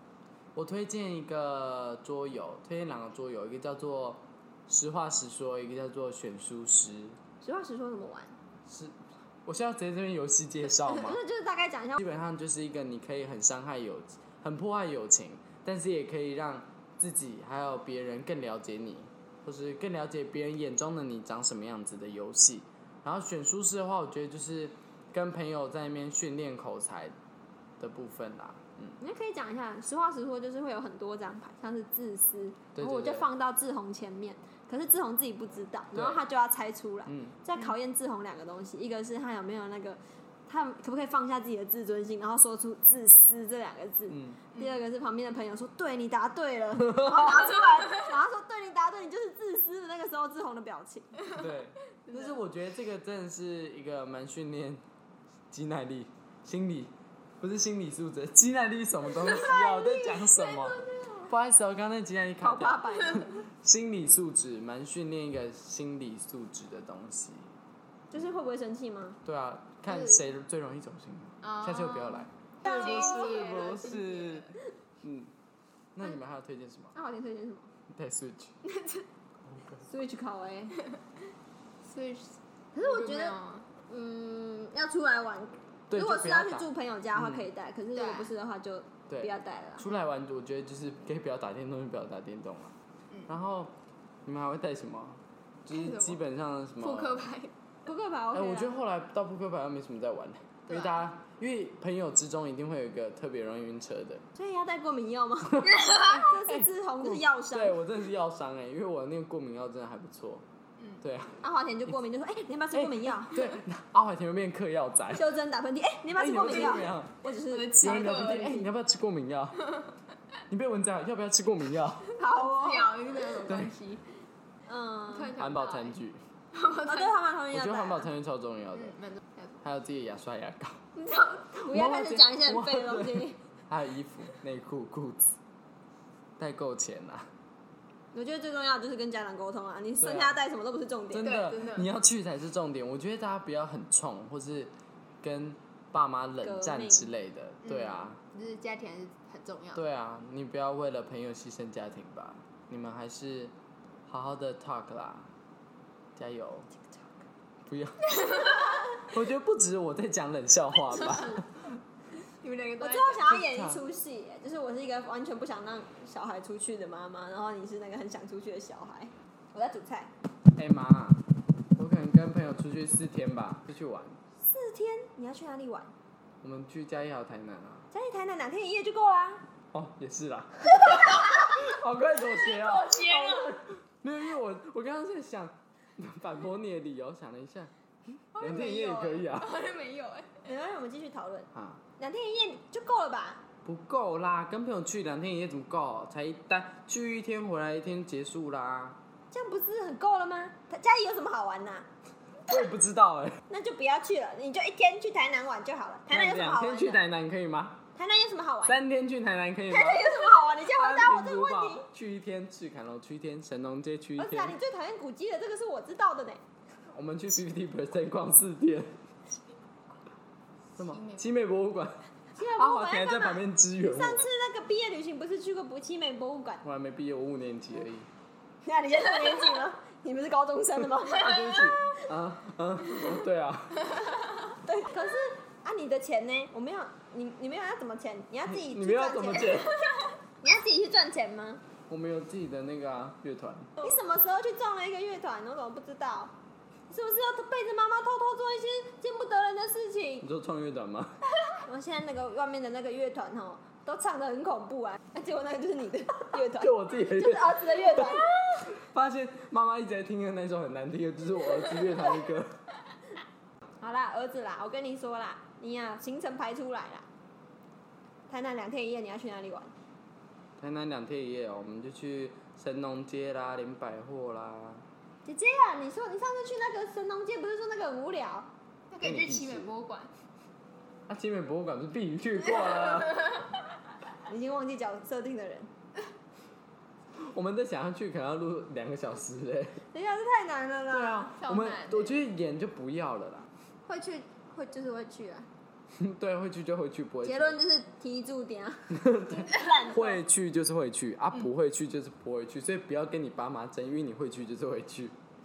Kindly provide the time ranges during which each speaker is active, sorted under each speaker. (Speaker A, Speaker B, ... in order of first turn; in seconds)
Speaker A: 0.5-7.2, 8.7-11.2, 12.0-27.1, 27.8-29.0, 32.7-33.3, 35.9-36.2, 37.0-37.4, 44.1-44.4, 51.3-54.8, 55.5-67.5, 69.2-75.3, 75.9-77.0, 77.9-78.5, 79.5-79.8, 85.9-87.5, 89.1-92.7, 93.3-93.7, 94.2-97.3, 98.3-104.2, 105.5-110.5, 111.0-111.4, 112.7-115.3, 116.2-117.2, 117.8-119.6, 120.5-122.1, 123.5-123.7, 125.4-126.2, 127.5-129.0, 129.6-130.8, 131.7-135.4, 136.4-137.3, 140.0-140.4, 141.1-148.2, 149.7-153.5, 154.1-155.3, 156.2-156.7, 157.7-161.8, 163.2-163.8, 170.6-171.2, 171.8-174.2, 176.4-177.9, 179.7-189.5, 191.5-191.8, 193.6-199.0, 202.5-203.4, 206.1-207.8, 208.6-214.6, 216.9-219.0, 220.8-224.2, 226.6-228.1, 231.2-233.8, 238.4-239.8, 241.9-243.7, 250.2-251.2, 256.4-262.6, 270.6-274.8, 279.0-279.7, 281.1-283.3, 287.1-289.8, 290.9-293.5, 295.9-297.6, 298.9-305.1
Speaker B: 7.4-8.4, 10.9-12.0, 29.0-51.2, 59.5-59.8, 62.4-63.4, 68.1-69.2, 72.6-73.5, 76.9-77.7, 79.9-80.8, 82.7-83.3, 83.9-89.8, 97.8-98.7, 104.3-107.8, 111.4-113.4, 115.1-118.7, 122.2-123.0, 124.7-125.3, 126.8-128.1, 131.5-133.4, 138.1-141.4, 146.4-147.1, 160.9-161.4, 162.8-170.1, 174.4-175.9, 177.9-179.4, 190.4-193.4, 199.3-201.9, 203.5-207.0, 207.9-208.8, 209.7-211.8, 214.2-216.4, 222.4-226.6, 228.6-232.0, 234.6-239.7, 240.4-241.6, 243.8-246.3, 246.9-250.2, 251.6-258.7, 263.8-267.1, 268.3-269.7, 275.2-278.5, 284.3-285.7, 289.9-291.3, 293.9-295.5, 297.2-300.1
Speaker C: 52.1-52.3, 59.4-61.2, 69.9-70.2, 71.4-74.6, 78.6-79.1, 81.8-83.7, 87.9-88.3, 95.7-96.2, 96.8-97.5, 100.7-101.0, 105.8-106.2, 117.5-118.6, 122.2-124.1, 125.1-126.0, 126.5-127.2, 128.7-129.6, 130.9-131.6, 141.2-141.9, 147.6-149.8, 162.2-163.3, 182.5-183.6, 188.3-190.5, 220.8-221.3, 278.9-280.1, 291.4-292.1, 299.5-300.0